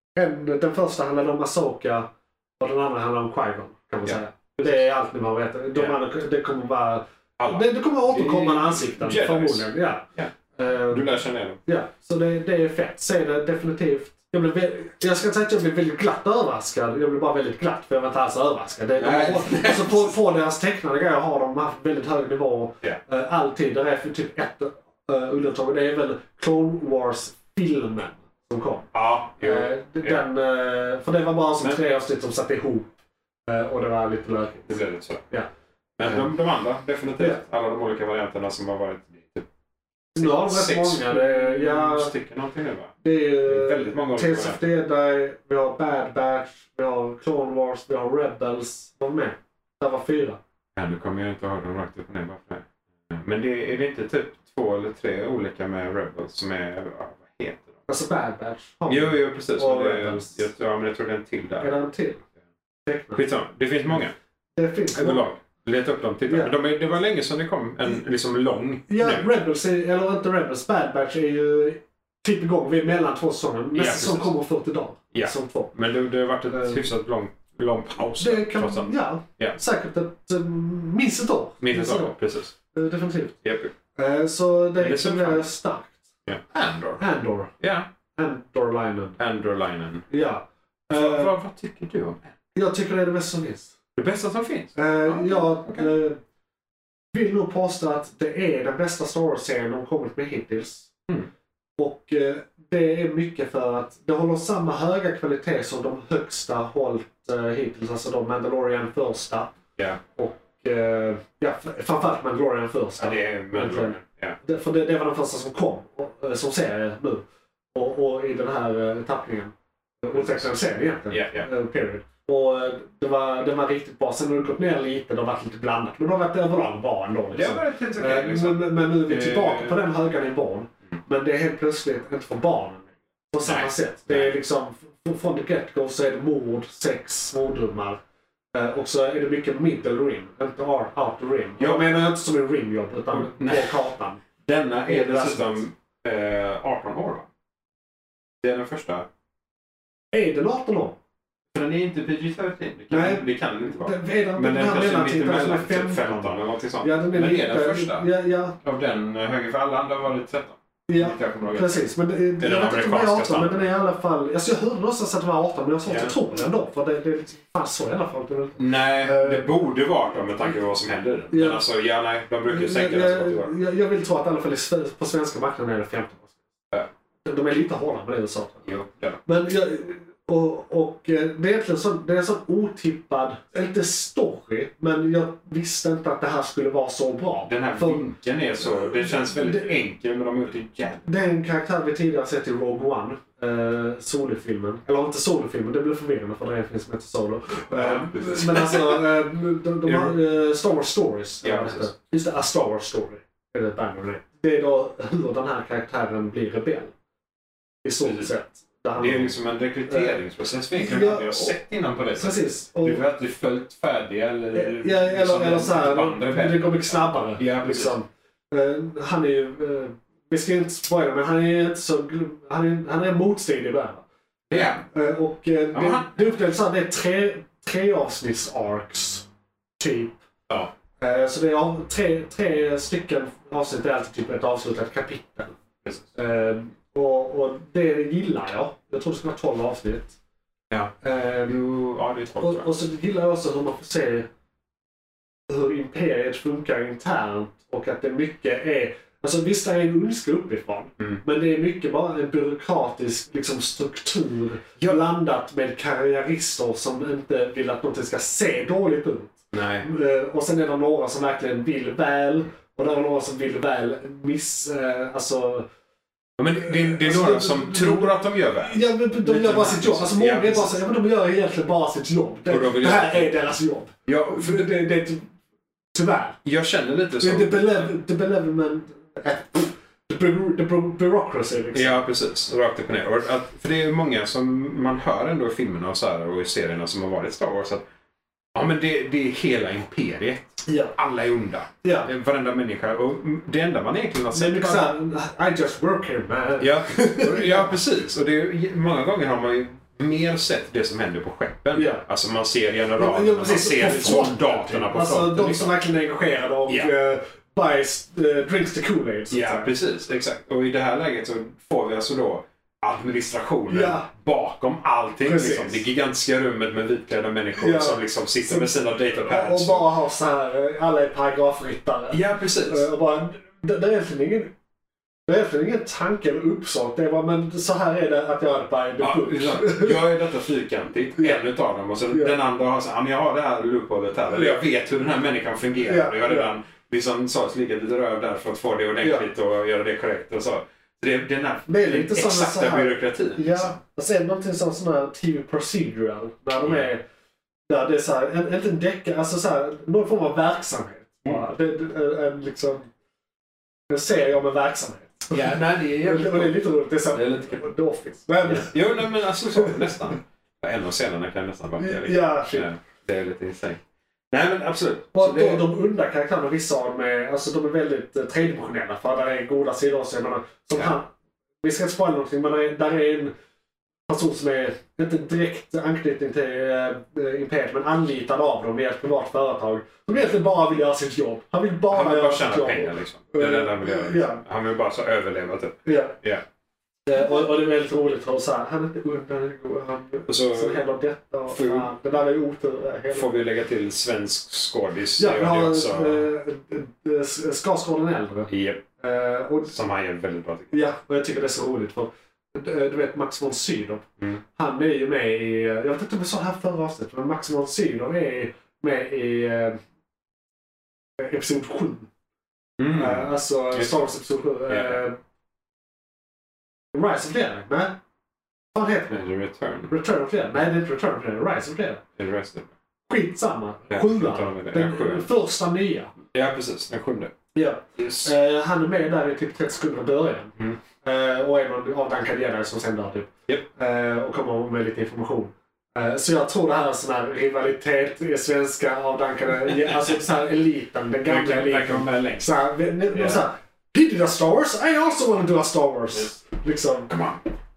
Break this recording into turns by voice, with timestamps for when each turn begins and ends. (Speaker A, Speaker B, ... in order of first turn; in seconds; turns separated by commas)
Speaker A: 0.2-10.1, Speaker B: 4.0-4.8, Speaker B: 5.7-6.0, Speaker B: 7.4-10.3, Speaker A: 10.6-11.1, Speaker B: 10.9-11.6, Speaker A: 11.7-28.9, Speaker B: 19.0-20.1, Speaker B: 28.9-30.2, Speaker A: 29.4-32.9, Speaker A: 33.5-35.5, Speaker B: 34.7-35.2, Speaker B: 36.0-39.5, Speaker A: 36.0-36.3, Speaker A: 40.1-42.1, Speaker B: 40.2-44.6, Speaker A: 43.0-50.4, Speaker B: 50.8-57.8, Speaker A: 57.9-60.4, Speaker B: 58.9-61.8, Speaker A: 61.6-62.2, Speaker A: 62.9-63.3, Speaker B: 63.2-64.1, Speaker A: 64.6-65.3, Speaker B: 64.9-69.3, Speaker A: 66.3-66.5, Speaker A: 68.9-75.7, Speaker B: 73.7-74.3, Speaker B: 75.1-79.6, Speaker A: 76.5-76.9, Speaker A: 78.2-82.2, Speaker B: 81.6-82.5, Speaker A: 82.7-83.4, Speaker B: 83.4-83.7, Speaker A: 84.0-86.0, Speaker B: 84.8-85.5, Speaker B: 86.2-87.0, Speaker A: 87.0-87.5, Speaker B: 87.6-87.9, Speaker A: 88.2-89.2, Speaker B: 89.2-90.0, Speaker A: 90.1-91.3, Speaker B: 90.9-92.3, Speaker A: 92.5-93.7, Speaker B: 94.0-95.9, Speaker A: 94.8-96.2, Speaker A: 97.1-100.9, Speaker A: 101.8-109.5, Speaker A: 110.2-117.2, Speaker B: 113.0-114.4, Speaker A: 117.7-138.0, Speaker B: 120.1-120.5, Speaker B: 121.1-121.5, Speaker B: 127.3-129.9, Speaker B: 133.4-134.3, Speaker A: 138.5-144.2, Speaker B: 141.6-142.0, Speaker B: 143.1-143.9, Speaker B: 144.4-147.2, Speaker A: 144.9-145.6, Speaker B: 148.4-149.1, Speaker A: 150.1-151.0, Speaker B: 151.5-158.1, Speaker A: 152.9-158.6, Speaker B: 158.6-161.8, Speaker A: 160.9-169.5, Speaker B: 162.4-163.7, Speaker B: 165.9-166.2, Speaker B: 168.6-173.5, Speaker A: 171.3-171.7, Speaker A: 172.5-176.3, Speaker A: 177.2-178.7, Speaker B: 178.7-179.2, Speaker A: 179.2-188.0, Speaker B: 187.5-191.1, Speaker A: 189.1-189.8, Speaker A: 191.0-206.9, Speaker B: 197.7-199.1, Speaker B: 199.8-200.2, Speaker B: 201.4-201.9, Speaker A: 207.8-209.3, Speaker B: 208.0-208.3, Speaker B: 209.0-217.9, Speaker A: 209.9-210.2, Speaker A: 210.7-211.6, Speaker A: 212.2-213.0, Speaker A: 214.5-229.2, Speaker B: 224.5-224.8, Speaker B: 225.7-226.2, Speaker A: 229.8-230.2, Speaker A: 231.0-235.6, Speaker B: 235.8-236.1, Speaker A: 236.1-240.2, Speaker A: 241.0-241.6, Speaker B: 241.4-242.7, Speaker A: 242.4-244.3, Speaker A: 245.5-265.7, Speaker B: 259.5-259.9, Speaker B: 266.4-270.8, Speaker A: 266.6-275.3, Speaker B: 272.5-273.5, Speaker B: 274.1-274.7, Speaker A: 275.9-276.4, Speaker B: 276.4-277.9, Speaker A: 277.2-282.0, Speaker B: 281.7-287.8, Speaker B: 288.6-294.9, Speaker A: 290.7-290.9, Speaker A: 291.8-292.1, Speaker A: 294.3-297.8, Speaker B: 296.6-305.7, Speaker A: 301.8-302.0, Speaker A: 303.0-309.7, Speaker B: 306.7-306.9, Speaker B: 309.3-319.9, Speaker A: 313.7-314.1, Speaker A: 315.2-315.8, Speaker A: 317.6-324.5, Speaker B: 322.1-322.9, Speaker A: 325.3-330.0, Speaker B: 329.0-343.8, Speaker A: 332.1-332.4, Speaker A: 334.3-334.6, Speaker A: 335.9-336.5, Speaker A: 339.0-339.3, Speaker A: 341.7-347.0, Speaker B: 346.6-346.9, Speaker A: 347.7-352.9, Speaker A: 353.9-360.0, Speaker B: 355.3-357.7, Speaker B: 358.4-365.7, Speaker A: 361.8-362.7, Speaker A: 365.1-373.3, Speaker A: 374.1-384.4, Speaker B: 381.9-386.4, Speaker A: 385.9-386.2, Speaker A: 387.1-393.3, Speaker B: 390.3-390.8, Speaker B: 391.5-391.9, Speaker B: 393.1-396.3, Speaker A: 395.2-399.7, Speaker B: 398.5-398.8, Speaker B: 399.6-400.8, Speaker A: 400.7-409.8, Speaker A: 411.2-412.1, Speaker B: 412.8-414.0, Speaker A: 412.9-415.2, Speaker B: 414.7-415.0, Speaker A: 416.9-418.0, Speaker A: 418.7-419.2, Speaker B: 419.1-419.9, Speaker A: 419.9-422.0, Speaker B: 422.2-422.7, Speaker A: 423.1-426.1, Speaker B: 423.9-425.3, Speaker B: 426.3-427.3, Speaker A: 427.5-447.1, Speaker B: 428.0-428.3, Speaker B: 441.2-442.5, Speaker B: 443.1-443.5, Speaker B: 447.1-447.4